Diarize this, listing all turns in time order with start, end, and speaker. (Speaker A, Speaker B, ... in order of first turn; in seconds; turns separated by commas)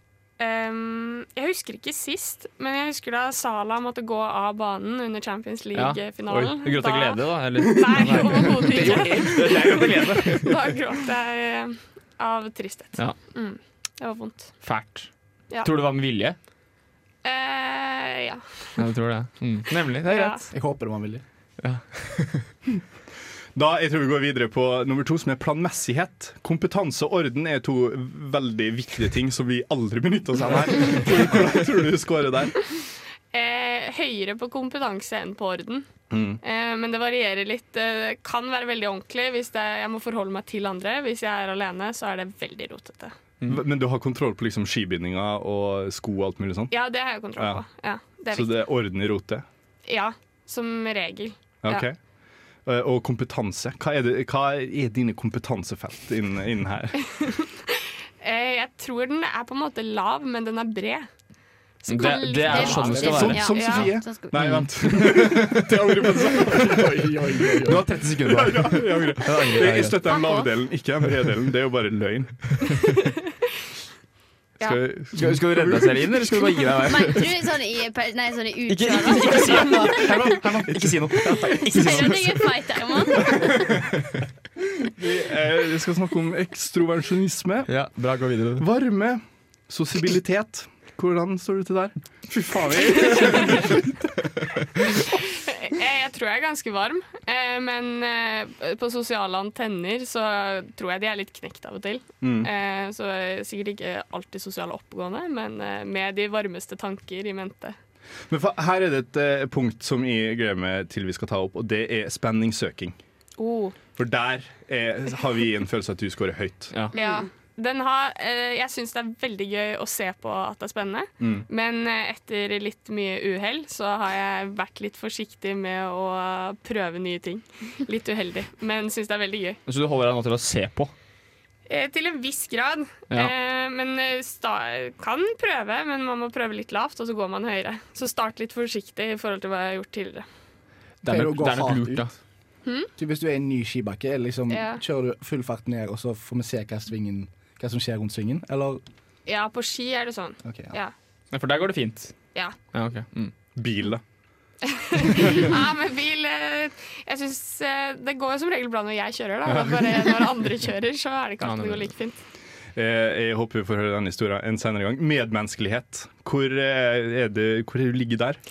Speaker A: 0.4-9.8, Speaker B: 5.8-10.5, Speaker C: 8.8-9.4, Speaker A: 10.3-14.6, Speaker B: 14.6-15.1, Speaker B: 15.6-16.4, Speaker A: 17.2-18.7, Speaker B: 18.8-20.4, Speaker A: 20.1-20.4, Speaker C: 20.5-21.2, Speaker B: 21.6-22.5, Speaker D: 23.6-32.6, Speaker A: 33.3-35.9, Speaker D: 36.1-36.4, Speaker A: 36.4-43.1, Speaker D: 43.5-46.7, Speaker A: 46.7-48.5, Speaker D: 47.4-47.6, Speaker D: 48.3-49.5, Speaker A: 49.9-51.8, Speaker D: 51.6-52.0, Speaker D: 52.7-57.0, Speaker A: 57.2-61.1, Speaker A: 61.8-63.9, Speaker B: 61.9-63.8, Speaker E: 62.0-64.5, Speaker C: 62.6-63.2, Speaker D: 62.9-67.1, Speaker B: 64.3-64.7, Speaker C: 65.5-67.8, Speaker D: 67.6-72.4, Speaker B: 67.7-70.0, Speaker E: 70.0-70.5, Speaker D: 74.6-76.5, Speaker B: 75.1-77.3, Speaker E: 76.9-80.2, Speaker B: 78.7-82.5, Speaker E: 81.4-83.8, Speaker D: 85.0-87.7, Speaker B: 87.7-88.7, Speaker D: 88.6-94.3, Speaker A: 93.1-93.6, Speaker A: 95.2-107.8, Speaker D: 102.2-102.5, Speaker D: 108.3-113.0, Speaker A: 113.4-113.8, Speaker D: 114.0-116.7, Speaker E: 116.9-117.3, Speaker A: 116.9-129.6, Speaker D: 121.2-121.5, Speaker B: 129.7-130.9, Speaker A: 131.7-140.2, Speaker B: 141.0-142.1, Speaker C: 141.1-142.1, Speaker A: 142.7-142.9, Speaker C: 143.0-148.8, Speaker A: 144.5-144.8, Speaker A: 149.3-150.9, Speaker C: 150.4-150.8, Speaker B: 151.3-152.1, Speaker B: 152.7-153.3, Speaker D: 153.6-154.0, Speaker A: 154.7-162.2, Speaker D: 159.5-159.9, Speaker B: 161.4-161.9, Speaker D: 162.8-168.4